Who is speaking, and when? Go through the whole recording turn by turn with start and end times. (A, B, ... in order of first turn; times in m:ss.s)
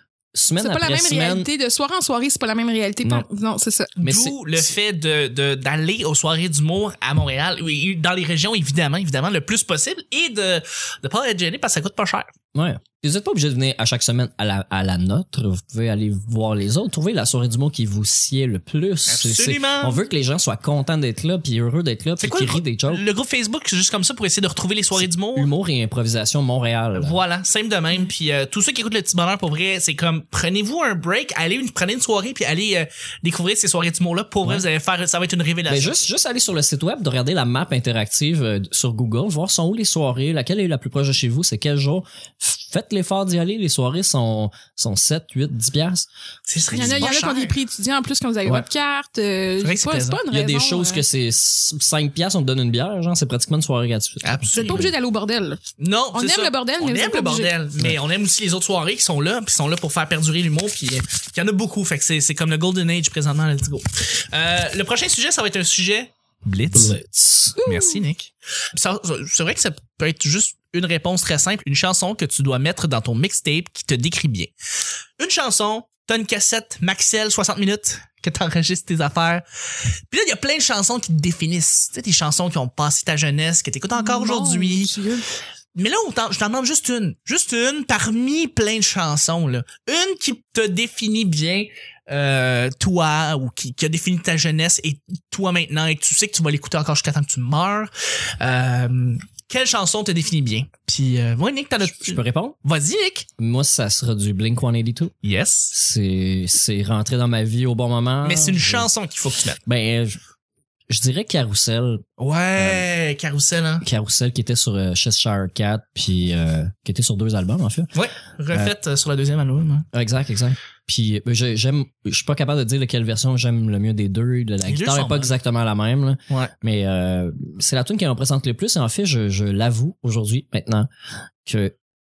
0:00.3-0:01.5 A
0:00.6-0:03.9 B
0:04.0-0:04.6 A
0:04.0-0:12.3 C
0:12.5-0:23.0 A
0:19.1-0:20.0 C
0:22.2-0:25.5 C
0:25.0-0:27.2 A
0:27.0-0:36.0 C
0:35.7-0:46.1 A
0:46.5-0:47.6 C
0:46.7-0:47.1 A
0:46.7-0:51.0 B
0:49.6-0:50.2 C
0:50.3-0:54.9 A
0:54.2-0:54.9 C
0:54.6-0:55.6 B
0:55.8-1:07.0 C
0:56.1-0:57.5 B
1:06.7-1:07.6 A
1:07.6-1:08.0 B
1:07.6-1:14.5 C
1:15.2-1:19.4 C
1:20.1-1:24.9 C
1:24.0-1:25.3 B
1:25.8-1:43.3 C
1:42.0-1:42.6 A
1:43.4-1:45.1 A
1:45.2-1:45.7 C
1:45.7-1:48.9 A
1:48.2-1:49.6 C
1:49.6-1:50.2 A
1:50.9-1:52.9 A
1:52.2-1:53.8 C
1:53.8-1:57.9 A
1:58.0-1:59.9 C
1:59.9-2:10.9 A
2:04.7-2:05.3 C
2:11.4-2:11.7 A